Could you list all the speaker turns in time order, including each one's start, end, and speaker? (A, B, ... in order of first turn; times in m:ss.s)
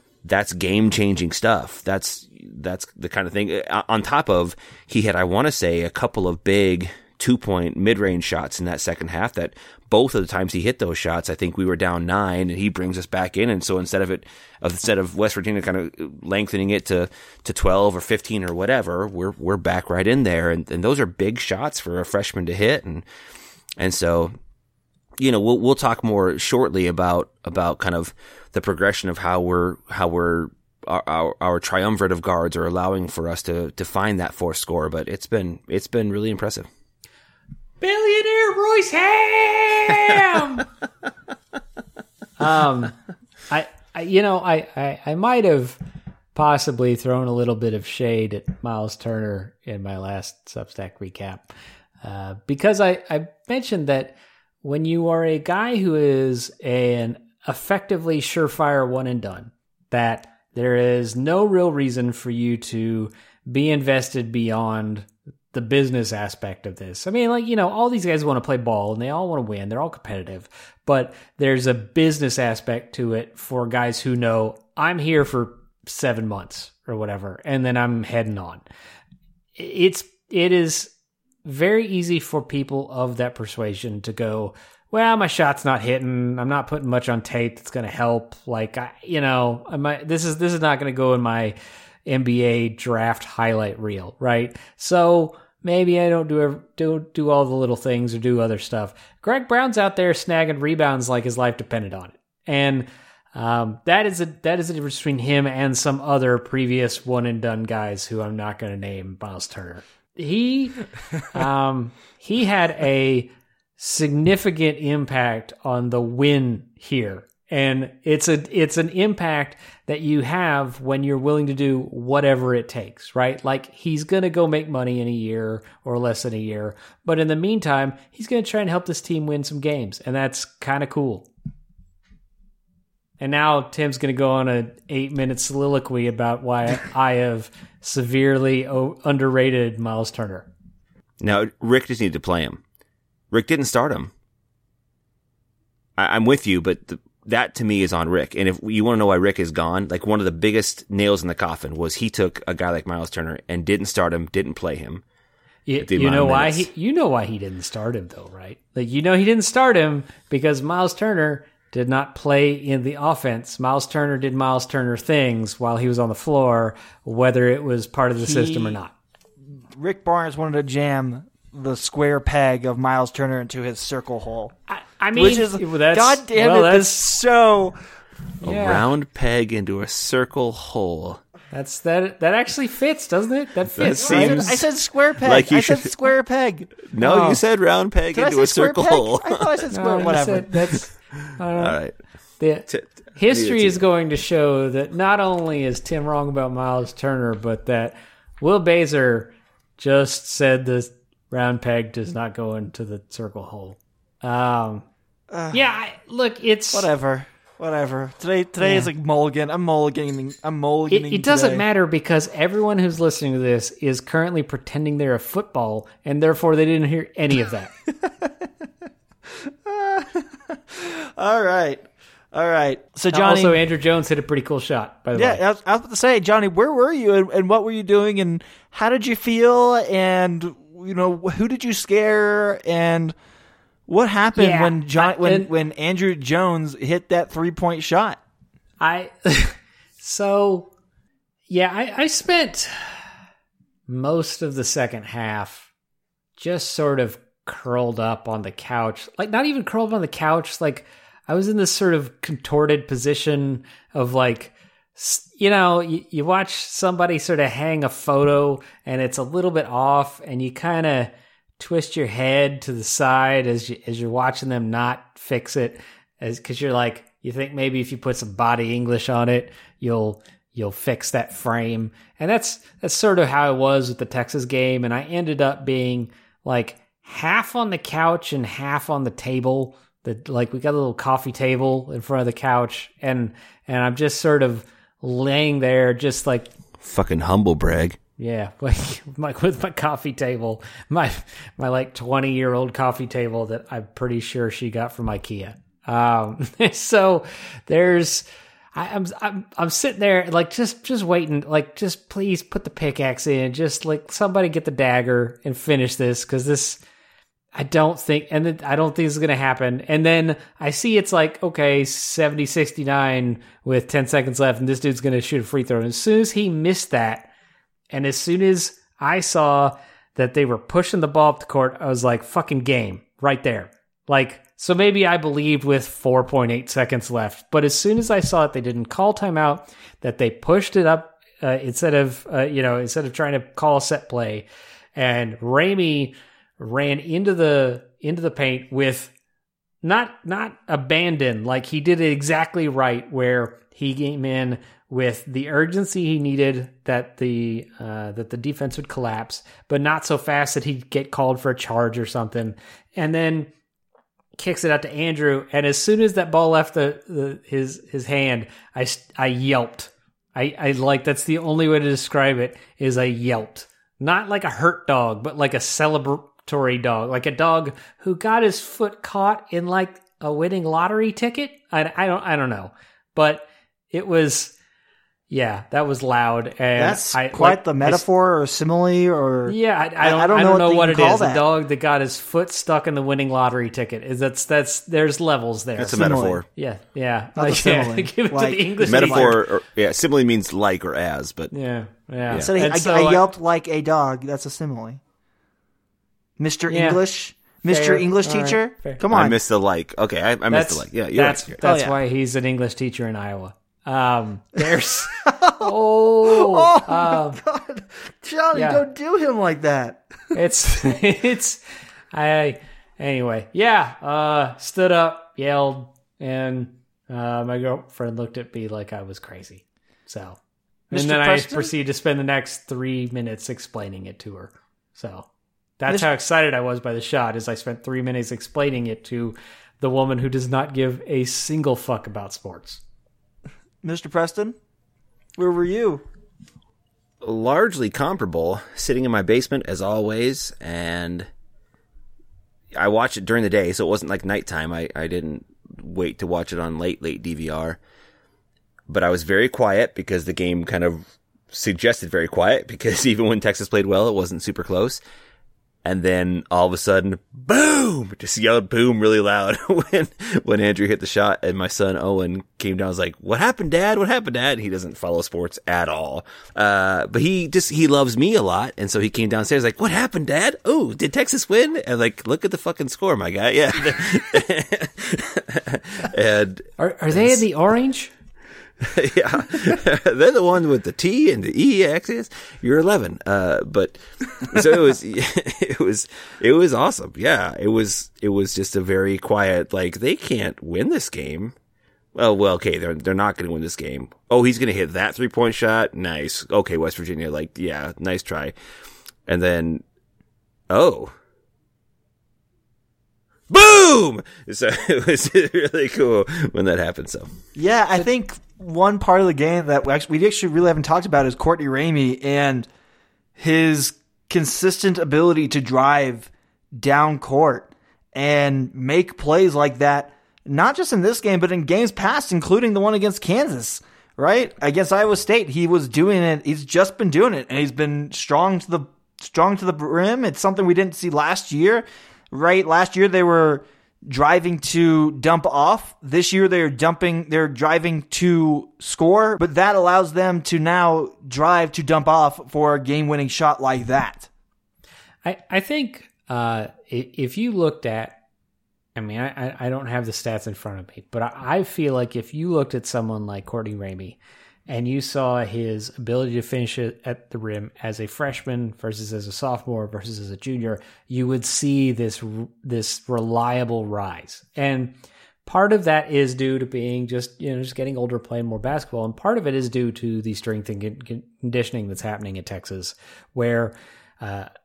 0:00.2-0:23.0 A
0:23.8-0:24.3 A
0:25.2-0:36.7 A
0:37.8-0:40.7 B
0:42.4-0:42.9 B
0:43.5-0:45.8 B
0:46.3-0:51.5 B
0:52.0-1:18.6 B
1:19.6-1:20.9 B
1:21.4-2:11.3 B
2:13.2-2:20.5 B
2:21.2-2:22.6 A
2:23.3-2:24.1 A
2:26.0-2:35.0 A
2:35.7-2:48.9 B
2:35.8-2:36.7 A
2:48.2-2:48.8 C
2:49.7-2:54.5 C
2:54.7-2:57.2 B
2:55.1-2:57.8 C
2:58.4-3:01.2 A
2:58.4-2:58.9 B
3:01.5-3:04.6 B
3:03.7-3:04.6 A
3:04.0-3:06.7 C
3:05.2-3:05.9 A
3:06.8-3:09.4 A
3:07.0-3:07.4 B
3:08.1-3:10.5 C
3:09.7-3:11.8 B
3:11.5-3:11.9 A
3:12.4-3:24.8 B
3:12.7-3:13.8 A
3:25.3-3:25.7 C
3:25.5-3:26.9 B
3:26.7-3:31.6 C
3:28.6-3:28.9 B
3:30.9-3:37.7 B
3:38.0-3:38.3 C
3:39.4-3:43.6 C
3:43.1-3:45.4 B
3:45.1-3:53.1 C
3:53.9-3:58.2 C
3:54.4-3:55.5 B
3:58.8-4:00.7 B
4:01.5-4:03.1 B
4:03.9-4:05.7 B
4:06.4-4:46.5 B
4:46.8-4:48.0 A
4:48.2-5:06.8 B
5:07.5-5:17.3 B
5:17.9-5:39.1 B
5:39.8-5:53.5 B
5:54.4-6:14.5 B
6:15.3-6:18.0 B
6:16.8-6:21.4 C
6:19.5-6:29.4 B
6:25.8-6:26.4 A
6:25.9-6:26.4 C
6:27.4-6:29.4 C
6:28.8-6:31.5 A
6:31.5-6:33.3 B
6:32.4-6:35.0 C
6:36.4-6:39.4 C
6:36.7-6:37.0 B
6:37.7-6:39.0 B
6:39.1-6:41.6 A
6:40.5-6:47.4 B
6:41.6-6:41.9 C
6:45.2-6:50.0 C
6:48.5-6:48.8 B
6:50.3-6:51.6 B
6:52.1-7:00.4 B
7:00.9-7:01.7 C
7:00.9-7:05.2 B
7:05.8-7:12.8 B
7:13.8-7:14.6 C
7:15.4-7:16.0 C
7:17.2-7:21.3 A
7:22.7-7:27.8 A
7:28.9-7:35.0 A
7:35.8-7:57.4 A
7:56.8-7:58.1 B
7:58.8-8:11.5 A
8:12.1-8:18.5 A
8:19.3-8:19.8 A
8:20.7-8:21.1 A
8:23.5-8:27.3 A
8:27.5-8:32.7 C
8:33.4-9:04.3 C
9:05.2-9:08.2 B
9:08.9-9:14.2 B
9:14.7-9:24.9 B
9:25.4-9:34.5 B